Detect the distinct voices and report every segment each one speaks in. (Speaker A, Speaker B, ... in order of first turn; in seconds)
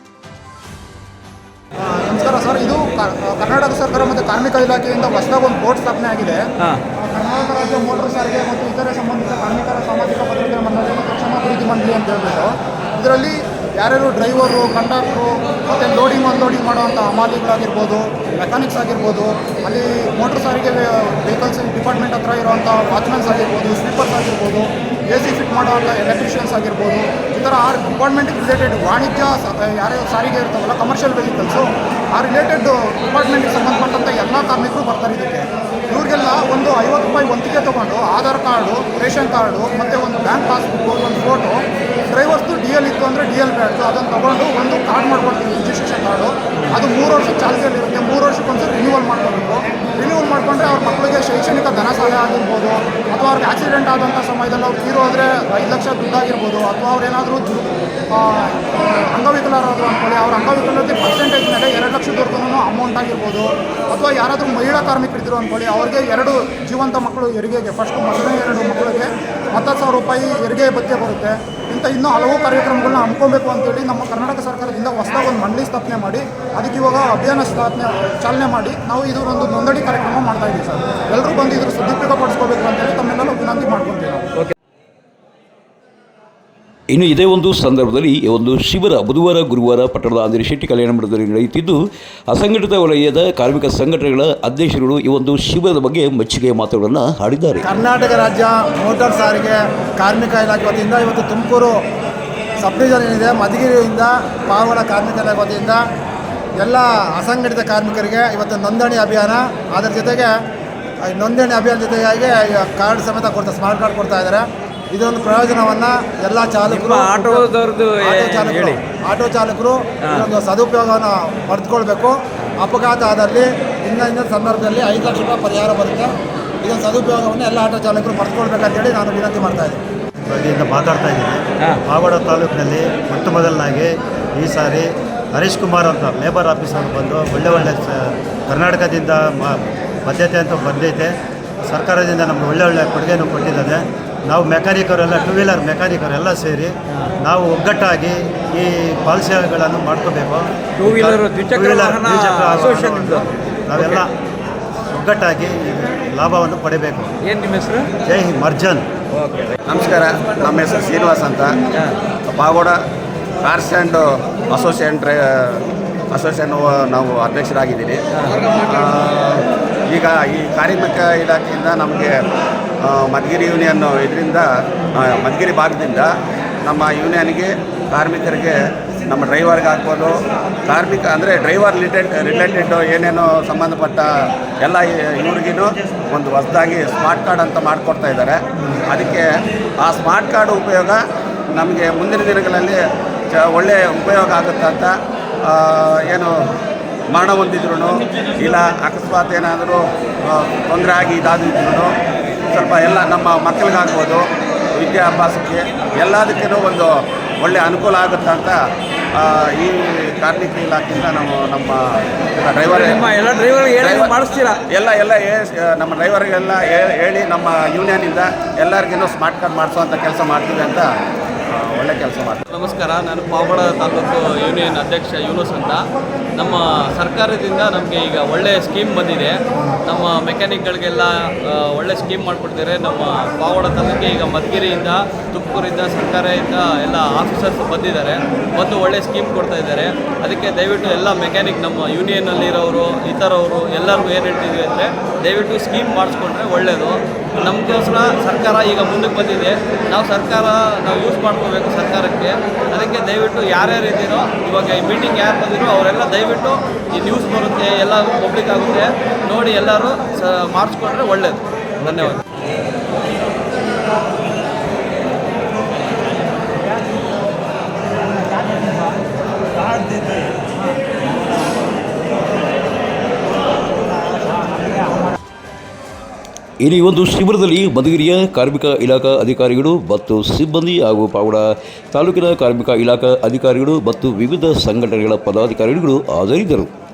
Speaker A: 1.9-6.4, 7.0-41.6, 42.1-84.2
Speaker B: 86.9-97.7, 276.6-286.7
Speaker C: 97.6-101.8, 102.6-105.8, 106.6-110.3, 111.0-126.1, 126.6-129.8
Speaker D: 116.7-118.8, 150.8-153.2, 157.3-157.9, 212.7-214.6
Speaker E: 130.3-141.1, 141.7-154.1, 154.9-157.1, 158.1-158.9
Speaker F: 159.7-161.5, 162.3-162.8, 163.4-165.6, 166.1-172.1, 172.9-174.4, 175.0-176.1, 176.7-178.6, 179.1-180.1, 180.7-184.0, 184.6-189.2, 189.8-191.0, 191.6-192.8, 193.3-194.9, 195.5-196.3, 197.1-199.8, 200.3-201.9, 202.5-204.2, 204.8-206.9, 207.4-208.6, 209.2-211.8, 212.4-213.1, 213.8-220.8, 221.6-222.4
Speaker G: 222.5-225.8, 226.3-262.2